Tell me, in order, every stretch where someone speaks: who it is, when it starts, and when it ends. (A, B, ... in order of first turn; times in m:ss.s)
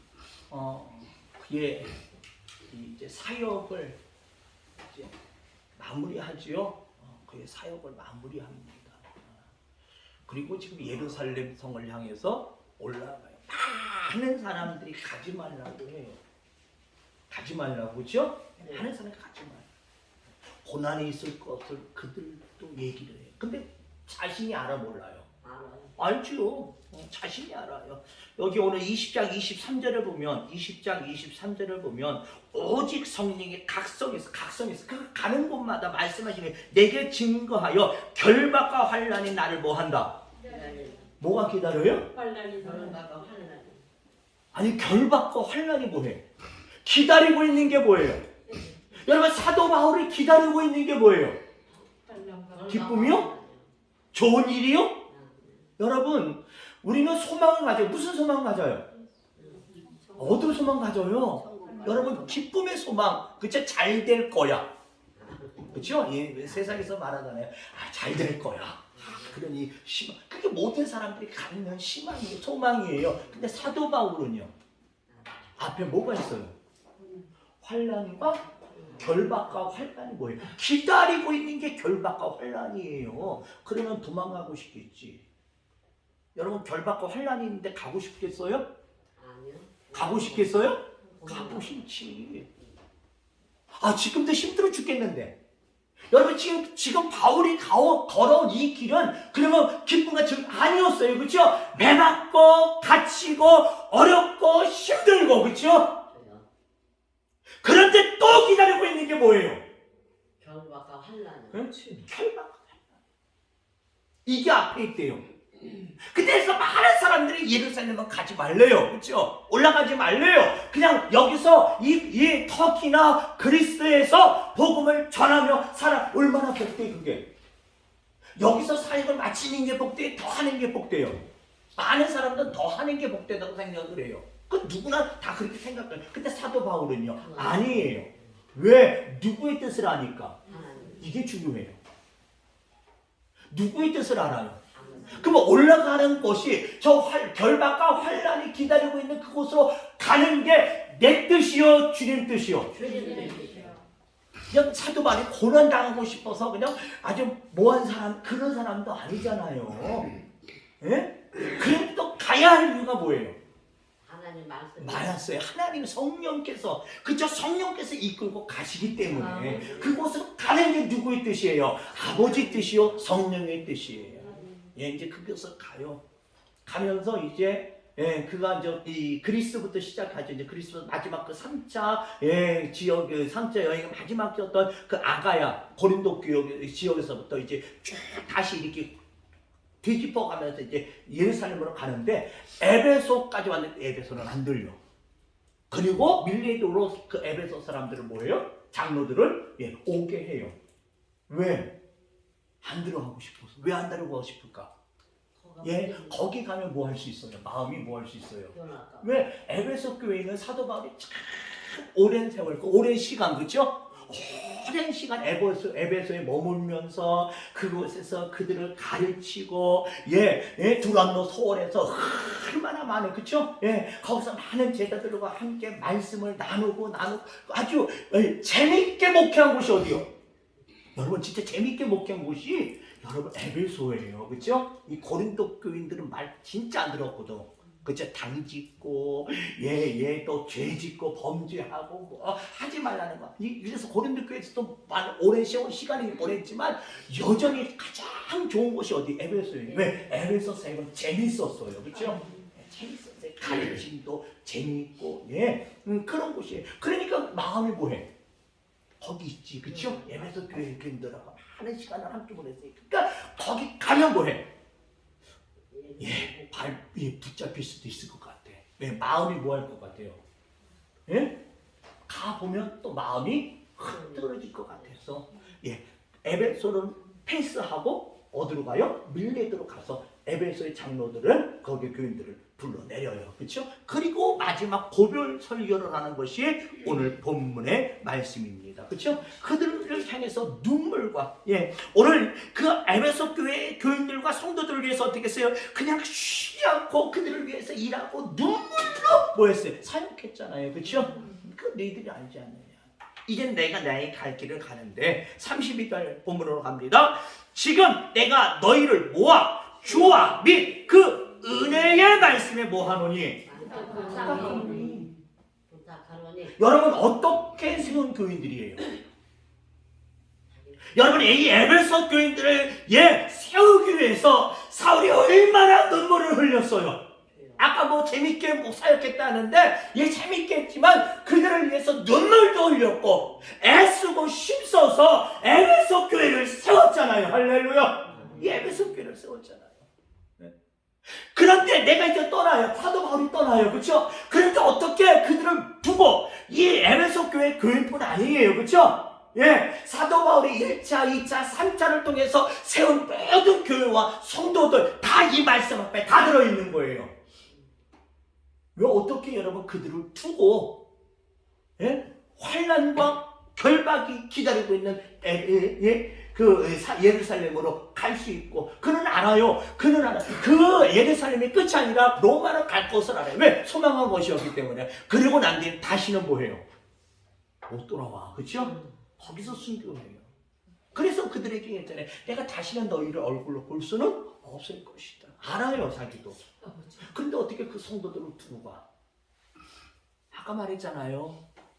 0:00.5-0:01.9 A
0:02.7-0:04.0 A
0:04.8-0:05.1 A
0:05.8-0:09.4 A
0:10.3-0:16.2 A
0:17.3-0:19.7 A
0:18.6-0:18.9 B
0:20.6-0:25.3 A
0:25.4-0:26.0 B
0:26.0-0:40.2 A
0:40.4-0:41.1 B
0:41.2-0:42.1 A
0:42.1-0:43.0 C
0:42.5-0:43.8 B
0:44.5-0:46.2 A
0:46.8-0:48.3 A
0:48.9-0:51.4 A
0:52.1-0:52.6 C
0:52.5-0:53.7 B
0:52.7-0:53.3 A
0:54.1-0:55.1 A
0:55.1-0:55.7 B
0:55.8-0:58.9 A
0:59.4-0:59.8 B
1:00.2-1:04.7 A
1:01.5-1:02.2 B
1:05.2-1:06.3 B
1:05.7-1:14.5 A
1:09.0-1:09.4 B
1:15.6-1:16.6 A
1:17.6-1:25.2 A
1:26.4-1:28.6 A
1:29.2-1:31.8 B
1:29.9-1:32.5 A
1:33.8-1:35.4 A
1:36.1-1:46.0 A
1:46.1-1:46.5 B
1:47.6-1:49.6 A
1:50.4-1:51.8 B
1:51.5-1:52.8 A
1:54.2-1:55.2 A
1:55.9-2:07.3 A
2:08.4-2:20.4 A
2:17.2-2:18.2 B
2:20.5-2:21.1 B
2:21.0-2:21.8 A
2:23.5-2:32.8 A
2:24.8-2:25.4 B
2:32.7-2:33.8 B
2:34.5-2:40.1 A
2:40.8-2:43.4 A
2:44.0-2:45.2 B
2:44.8-2:56.0 A
2:49.2-2:49.6 C
2:49.5-2:50.0 B
2:52.3-2:52.8 B
2:56.6-3:09.0 A
3:09.8-3:14.8 A
3:15.7-3:20.6 A
3:21.3-3:21.8 A
3:22.6-3:24.7 A
3:25.4-3:26.2 B
3:25.6-3:50.1 A
3:28.5-3:29.1 B
3:50.9-4:18.1 A
4:09.7-4:10.0 B
4:19.0-4:24.5 A
4:19.7-4:20.2 B
4:25.7-4:26.5 B
4:26.0-4:30.2 A
4:31.1-4:31.4 A
4:32.1-5:13.5 A
4:33.9-4:34.8 B
5:13.5-5:15.1 B
5:13.7-5:15.1 C
5:14.0-5:15.1 A
5:15.7-5:16.6 B
5:16.6-5:19.0 A
5:20.6-5:21.1 B
5:20.9-5:27.0 A
5:27.4-5:27.6 B
5:27.6-5:39.8 A
5:38.1-5:38.7 B
5:41.1-5:57.1 A
5:58.8-6:00.8 A
6:01.8-6:16.6 A
6:17.7-6:20.3 A
6:18.5-6:18.9 B
6:20.9-6:26.4 A
6:26.6-6:27.1 C
6:27.0-6:28.8 A
6:30.3-6:31.4 A